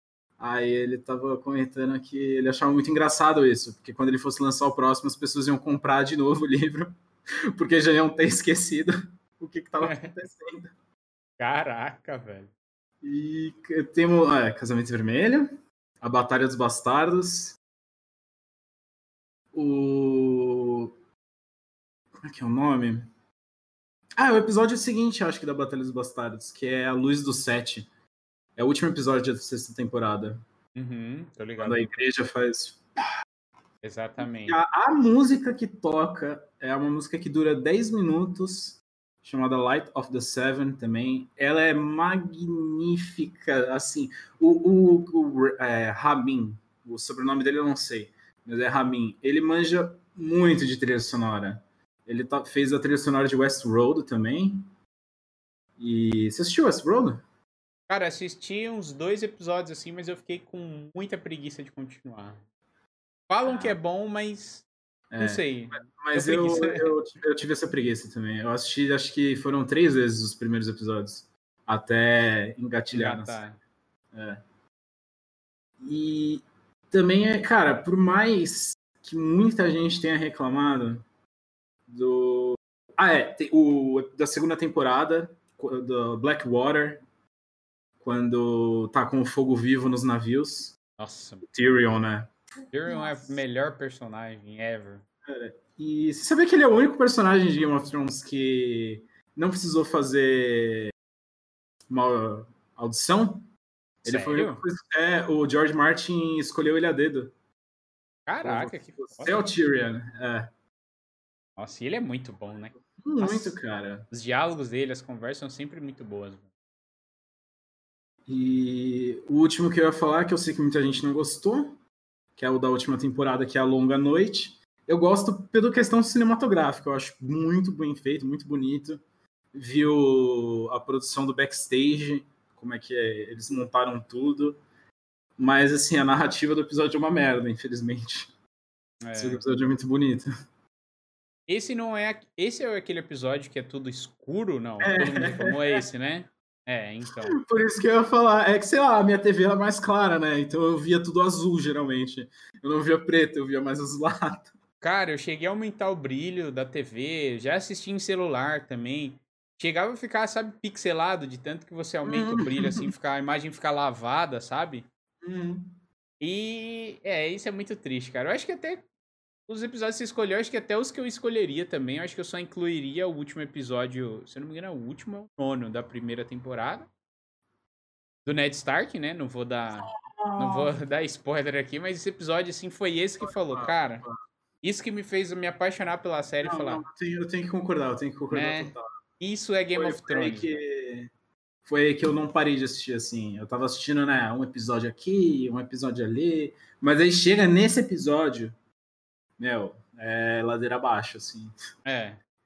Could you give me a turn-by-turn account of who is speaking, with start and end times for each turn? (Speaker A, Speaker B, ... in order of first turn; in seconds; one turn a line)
Speaker A: 0.4-6.9
Speaker A: 7.5-10.7
Speaker B: 9.8-10.1
Speaker B: 11.4-12.5
Speaker A: 13.0-15.5
Speaker A: 16.0-17.6
Speaker A: 19.5-20.9
Speaker A: 22.2-23.1
Speaker A: 24.2-27.9
Speaker A: 28.6-30.4
Speaker B: 30.7-32.0
Speaker A: 31.6-33.0
Speaker B: 33.8-34.6
Speaker A: 34.2-54.6
Speaker A: 55.8-57.2
Speaker B: 57.9-62.4
Speaker B: 63.3-64.7
Speaker A: 63.4-63.8
Speaker A: 65.1-73.4
Speaker B: 65.2-66.9
Speaker B: 72.9-73.6
Speaker A: 74.1-74.4
Speaker A: 75.8-81.0
Speaker A: 81.9-87.0
Speaker A: 88.0-90.8
Speaker B: 91.0-91.5
Speaker A: 91.5-92.3
Speaker B: 92.7-95.0
Speaker A: 92.9-93.3
Speaker A: 95.2-100.9
Speaker A: 101.9-103.5
Speaker A: 104.0-107.3
Speaker B: 104.0-104.6
Speaker B: 108.3-109.5
Speaker A: 108.4-110.5
Speaker B: 111.6-113.6
Speaker A: 113.0-114.0
Speaker B: 114.1-116.5
Speaker A: 118.3-121.8
Speaker A: 122.4-129.0
Speaker A: 129.5-134.6
Speaker A: 135.4-138.3
Speaker B: 139.0-139.4
Speaker A: 139.1-140.3
Speaker B: 141.5-147.4
Speaker A: 144.8-145.8
Speaker A: 147.3-154.5
Speaker B: 154.8-164.8
Speaker A: 162.0-162.9
Speaker A: 165.2-165.7
Speaker B: 166.2-168.8
Speaker B: 169.5-176.9
Speaker B: 178.2-184.0
Speaker A: 179.8-180.7
Speaker A: 183.2-184.2
Speaker B: 184.6-186.8
Speaker A: 186.4-188.8
Speaker B: 188.3-190.6
Speaker A: 189.8-191.1
Speaker A: 191.6-198.5
Speaker A: 199.4-201.5
Speaker B: 201.8-202.2